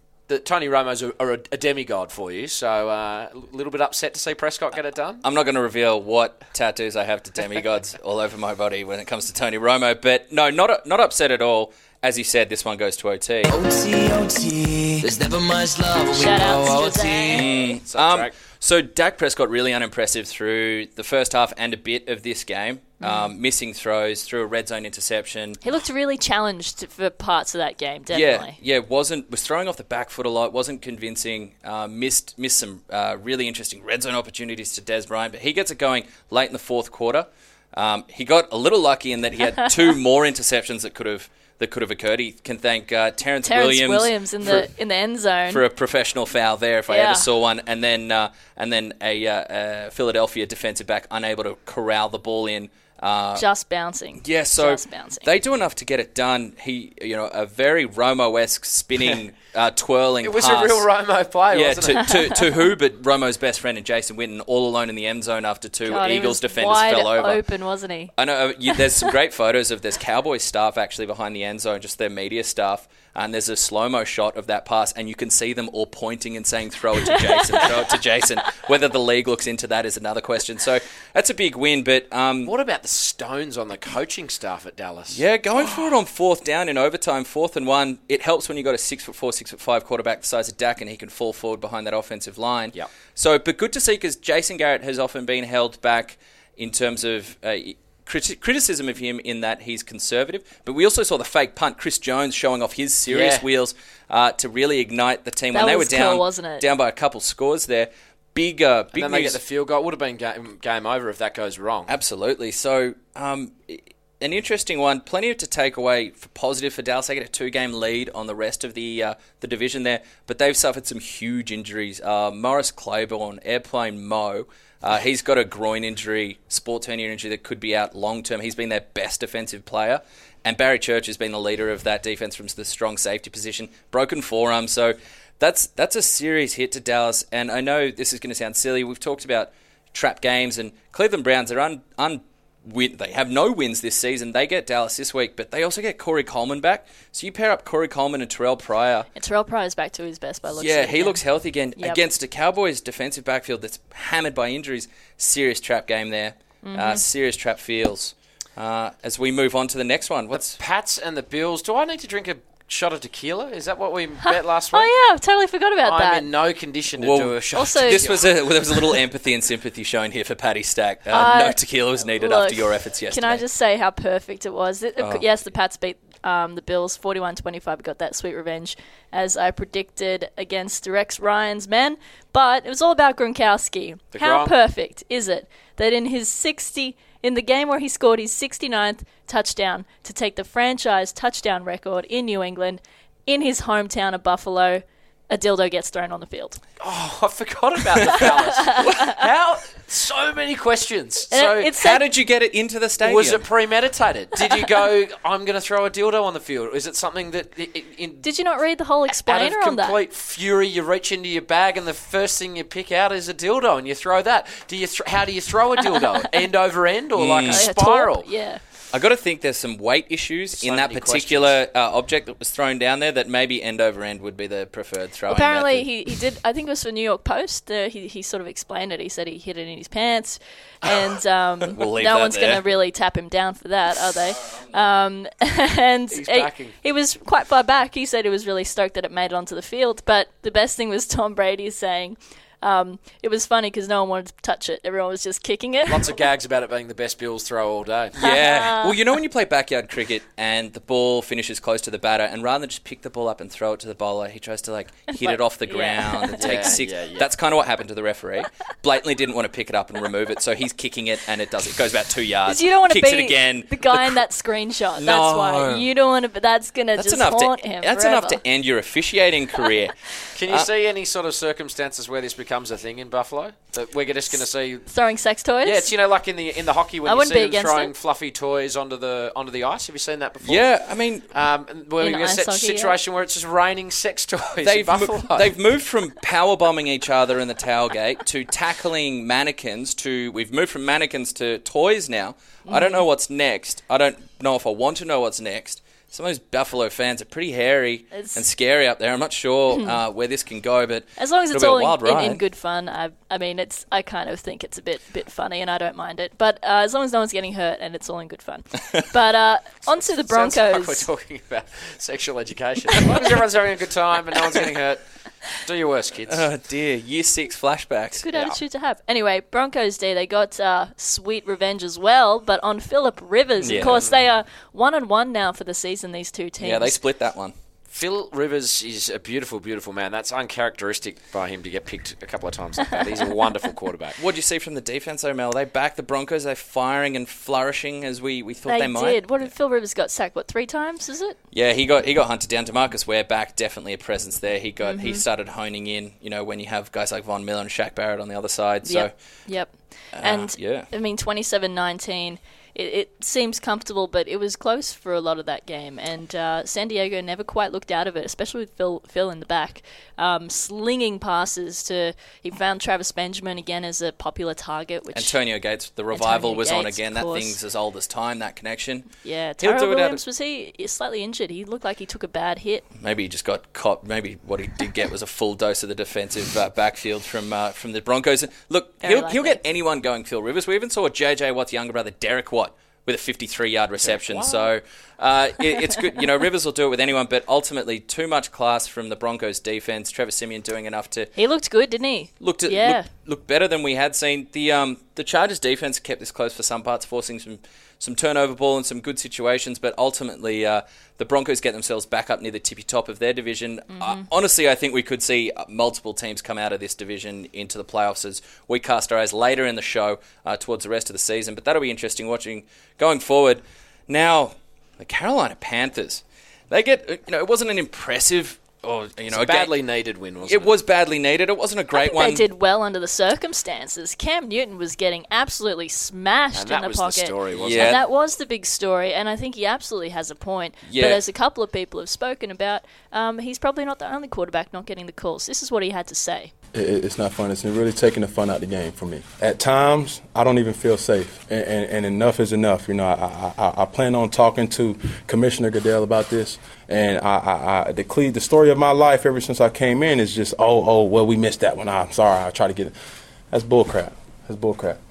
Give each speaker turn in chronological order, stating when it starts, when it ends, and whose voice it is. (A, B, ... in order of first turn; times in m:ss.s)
0:00.3-0:05.2 A
0:05.2-0:13.5 B
0:13.5-0:17.4 C
0:16.1-0:17.5 D
0:17.3-0:25.7 B
0:17.4-0:18.3 A
0:23.0-0:23.3 D
0:25.6-0:28.6 D
0:28.1-0:44.6 B
0:43.4-0:45.6 D
0:45.5-0:53.4 B
0:46.9-0:47.3 D
0:53.4-0:55.3 D
0:54.2-1:00.9 B
1:00.2-1:02.1 A
1:01.5-1:07.4 B
1:05.8-1:08.1 D
1:08.1-1:22.5 B
1:08.7-1:09.1 D
1:22.4-1:25.8 A
1:25.1-1:49.4 B
1:43.1-1:43.4 A
1:45.5-1:46.6 D
1:48.9-1:51.9 A
1:51.9-2:29.1 B
2:29.1-2:31.2 D
2:30.6-2:40.6 B
2:36.6-2:37.0 D
2:40.3-2:44.9 A
2:44.2-2:46.3 D
2:45.8-2:48.9 A
2:47.0-2:53.4 B
2:47.5-2:48.1 D
2:51.1-2:51.6 D
2:52.2-3:16.6 D
2:55.0-2:55.2 B
3:04.1-3:04.5 A
3:16.8-3:21.7 A
3:18.1-3:19.1 D
3:21.3-3:22.0 D
3:21.8-3:23.4 B
3:23.0-3:28.2 A
3:28.2-3:30.0 D
3:29.1-3:38.3 A
3:37.2-3:37.7 B
3:37.5-3:38.6 D
3:38.9-3:46.1 B
3:40.6-3:41.6 A
3:45.3-4:06.1 D
3:51.7-3:52.6 B
3:56.1-3:56.7 A
4:05.9-4:08.1 A
4:08.2-4:09.0 D
4:08.2-4:24.2 B
4:15.1-4:16.8 D
4:16.4-4:17.3 A
4:22.5-4:28.4 D
4:25.0-4:25.8 B
4:27.0-4:29.9 B
4:30.3-4:34.9 A
4:34.9-4:35.9 D
4:35.6-4:40.7 A
4:37.0-4:37.9 D
4:40.4-4:41.3 B
4:41.3-4:45.5 A
4:42.0-4:43.0 D
4:44.6-5:02.4 B
4:52.7-4:53.0 D
4:58.1-4:58.4 D
4:59.7-5:00.0 D
5:01.2-5:11.1 D
5:10.1-5:16.4 A
5:16.3-5:18.2 B
5:18.2-5:27.0 D
5:18.3-5:18.6 A
5:23.6-5:24.0 B
5:23.6-5:24.2 A
5:26.6-5:27.5 B
5:27.9-5:34.2 A
5:34.2-5:39.5 B
5:38.7-5:41.4 D
5:41.5-5:49.1 B
5:44.8-5:45.2 D
5:48.8-6:05.4 D
5:50.1-5:50.9 B
6:05.1-6:10.2 B
6:06.1-6:07.6 D
6:09.2-6:12.8 D
6:13.0-6:31.3 B
6:19.0-6:19.6 D
6:24.0-6:24.7 A
6:31.4-6:33.0 D
6:32.4-6:59.7 B
6:43.9-6:44.2 D
6:59.3-7:00.7 A
7:00.4-7:02.4 B
7:01.9-7:16.5 D
7:06.5-7:07.9 A
7:07.6-7:08.0 B
7:10.9-7:11.2 B
7:16.7-7:32.9 E
7:33.5-7:35.0 E